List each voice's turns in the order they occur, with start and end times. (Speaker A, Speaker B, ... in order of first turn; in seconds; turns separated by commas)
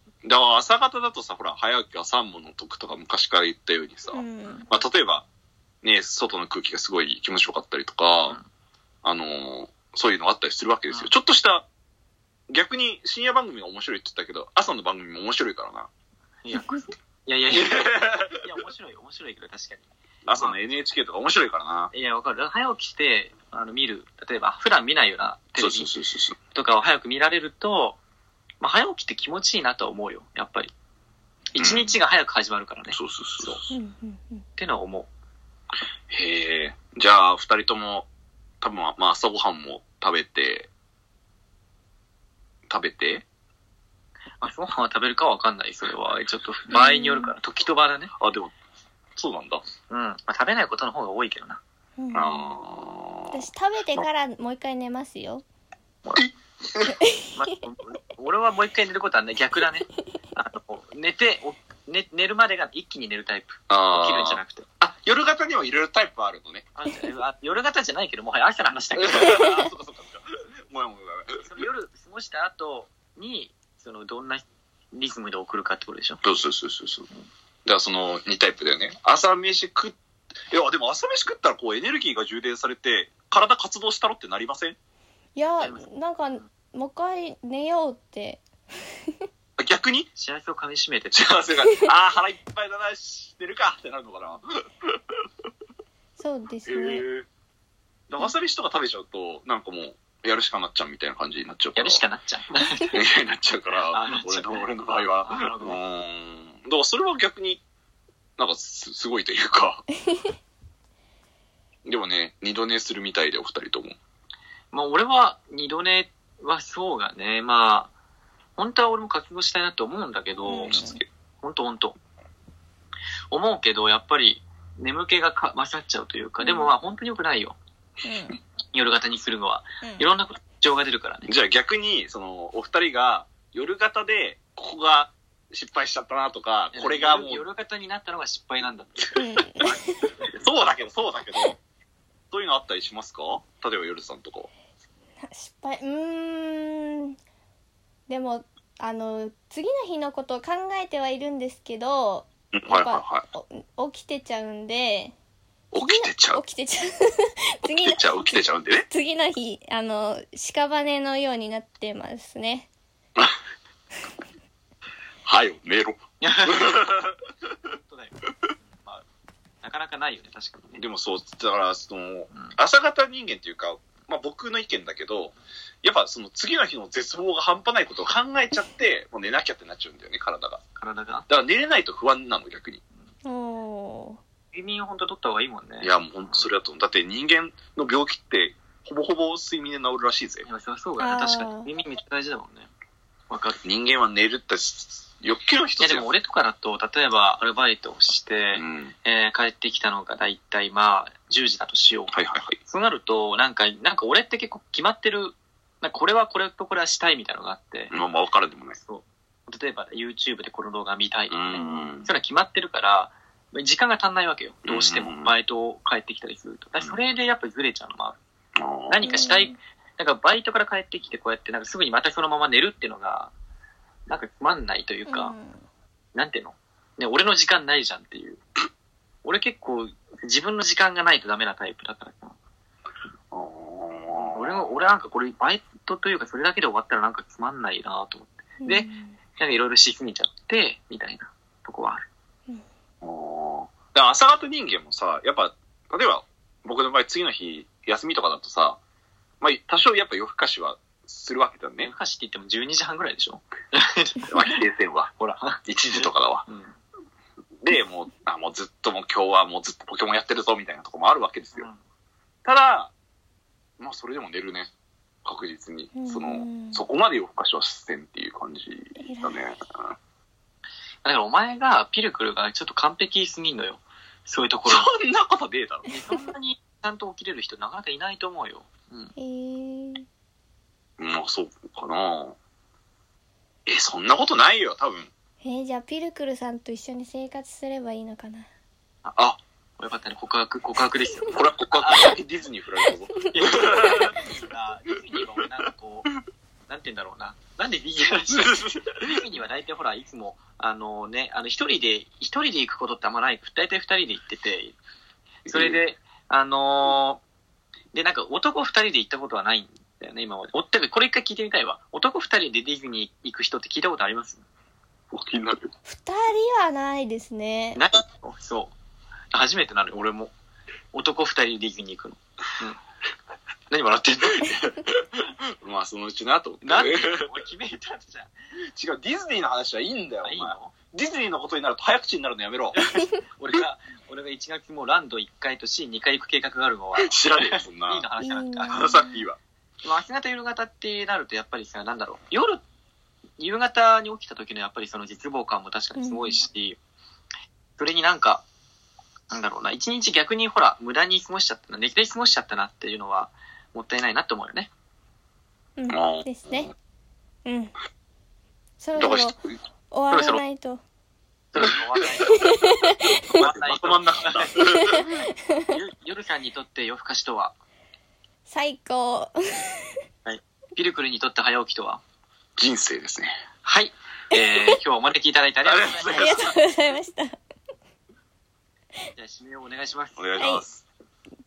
Speaker A: 0.2-5.3, Speaker B: 4.1-4.7, Speaker A: 5.8-8.4, Speaker A: 9.0-11.7, Speaker A: 12.5-15.9, Speaker C: 16.4-20.6, Speaker B: 16.5-16.8, Speaker A: 17.5-18.4, Speaker A: 20.3-21.9, Speaker C: 21.9-25.9, Speaker A: 25.6-26.4, Speaker C: 26.5-28.0, Speaker C: 28.6-30.7, Speaker C: 31.5-33.7, Speaker A: 31.6-31.9, Speaker A: 32.9-33.6, Speaker B: 33.7-34.4, Speaker C: 34.6-35.1, Speaker A: 36.1-38.1, Speaker A: 38.6-40.7, Speaker A: 42.7-43.2, Speaker C: 44.4-48.1, Speaker B: 46.7-47.3, Speaker A: 48.2-48.5, Speaker A: 49.2-49.6, Speaker C: 49.9-51.6, Speaker B: 52.0-52.5, Speaker A: 52.1-54.1, Speaker B: 53.3-55.4, Speaker B: 57.0-57.3, Speaker C: 57.3-64.7, Speaker A: 63.7-66.7, Speaker C: 66.8-69.4, Speaker A: 69.0-71.4, Speaker B: 69.3-69.5, Speaker C: 71.4-76.2, Speaker A: 76.2-77.1, Speaker A: 77.7-80.0, Speaker A: 80.5-84.8, Speaker B: 85.3-88.4, Speaker C: 85.6-85.9, Speaker A: 89.6-90.1, Speaker C: 90.2-91.5, Speaker A: 91.1-94.9, Speaker B: 96.2-97.0, Speaker A: 96.7-97.3, Speaker A: 98.1-102.0, Speaker C: 101.8-102.9, Speaker A: 102.9-107.6, Speaker C: 103.9-105.8, Speaker A: 108.4-109.8, Speaker A: 111.9-114.0, Speaker C: 114.7-117.9, Speaker C: 118.6-120.8, Speaker B: 120.5-121.0, Speaker A: 120.7-121.0, Speaker C: 121.4-122.0, Speaker C: 123.3-127.6, Speaker B: 126.4-126.7, Speaker B: 128.0-128.4, Speaker C: 128.7-131.3, Speaker B: 129.8-130.1, Speaker A: 131.3-137.4, Speaker C: 136.7-140.5, Speaker B: 139.2-139.8, Speaker A: 140.4-141.6, Speaker A: 142.3-144.5, Speaker B: 145.3-147.2, Speaker B: 148.1-155.1, Speaker A: 152.5-153.2, Speaker A: 155.7-156.4, Speaker B: 155.7-162.7, Speaker A: 157.7-158.9, Speaker A: 165.3-167.2, Speaker C: 166.2-166.7, Speaker C: 167.7-169.0, Speaker C: 169.6-170.8, Speaker A: 170.8-180.6, Speaker C: 180.8-181.3, Speaker A: 181.3-182.8, Speaker B: 183.2-184.2, Speaker C: 184.5-186.4, Speaker A: 185.8-190.5, Speaker C: 190.4-192.7, Speaker B: 191.0-191.7, Speaker C: 193.3-193.6, Speaker A: 193.6-196.1, Speaker C: 195.8-207.9, Speaker A: 198.6-198.9, Speaker A: 202.1-202.6, Speaker A: 207.9-208.8, Speaker C: 208.8-218.2, Speaker A: 211.3-212.1, Speaker A: 214.7-215.3, Speaker A: 218.6-219.0, Speaker C: 218.9-223.3, Speaker B: 219.1-219.6, Speaker C: 224.1-225.3, Speaker B: 225.1-225.6, Speaker C: 226.2-228.4, Speaker C: 229.2-232.3, Speaker A: 233.3-234.8, Speaker C: 234.2-242.1, Speaker B: 238.6-239.2, Speaker A: 243.0-248.8, Speaker A: 249.4-251.9, Speaker C: 251.8-254.6, Speaker A: 254.3-255.1, Speaker C: 255.2-256.7, Speaker A: 255.6-256.5, Speaker A: 257.6-261.7, Speaker A: 262.4-262.9, Speaker A: 263.8-264.7, Speaker A: 265.2-269.9, Speaker B: 265.9-266.9, Speaker B: 269.0-269.4, Speaker C: 271.0-274.9, Speaker A: 274.7-275.9, Speaker C: 275.9-279.1, Speaker B: 279.2-280.1, Speaker A: 281.0-282.4, Speaker A: 283.7-285.1, Speaker B: 285.4-288.5, Speaker C: 289.8-292.2, Speaker A: 291.3-294.2, Speaker C: 293.3-296.1, Speaker C: 296.7-304.8, Speaker A: 298.3-299.0, Speaker A: 305.5-305.8, Speaker C: 305.5-307.2, Speaker C: 307.9-314.4, Speaker A: 315.1-315.7, Speaker B: 315.9-317.8, Speaker C: 317.8-318.7, Speaker C: 319.3-320.3, Speaker C: 320.9-322.8, Speaker C: 323.7-324.7, Speaker A: 325.6-327.3, Speaker C: 326.6-328.3, Speaker A: 328.8-332.8, Speaker C: 330.2-330.7, Speaker C: 332.7-338.9, Speaker A: 337.0-338.1, Speaker B: 338.2-339.2, Speaker A: 338.7-339.4, Speaker C: 339.8-342.6, Speaker C: 343.4-346.8, Speaker B: 346.0-346.4, Speaker C: 347.8-348.4, Speaker C: 349.3-354.7, Speaker B: 355.8-356.7, Speaker A: 355.9-356.7, Speaker B: 357.4-357.7, Speaker B: 358.8-359.4, Speaker A: 359.0-359.6, Speaker B: 359.9-360.8, Speaker C: 360.1-360.4, Speaker C: 361.5-362.4, Speaker B: 362.3-363.2, Speaker A: 363.3-365.1, Speaker C: 363.3-364.5, Speaker B: 364.8-365.7, Speaker C: 365.7-367.6, Speaker B: 368.5-369.8, Speaker C: 370.3-372.0, Speaker A: 372.6-373.4, Speaker C: 373.6-376.4, Speaker B: 374.3-374.7, Speaker A: 375.6-376.6, Speaker B: 376.1-377.4, Speaker C: 379.2-380.2, Speaker A: 380.2-380.8, Speaker B: 380.4-380.6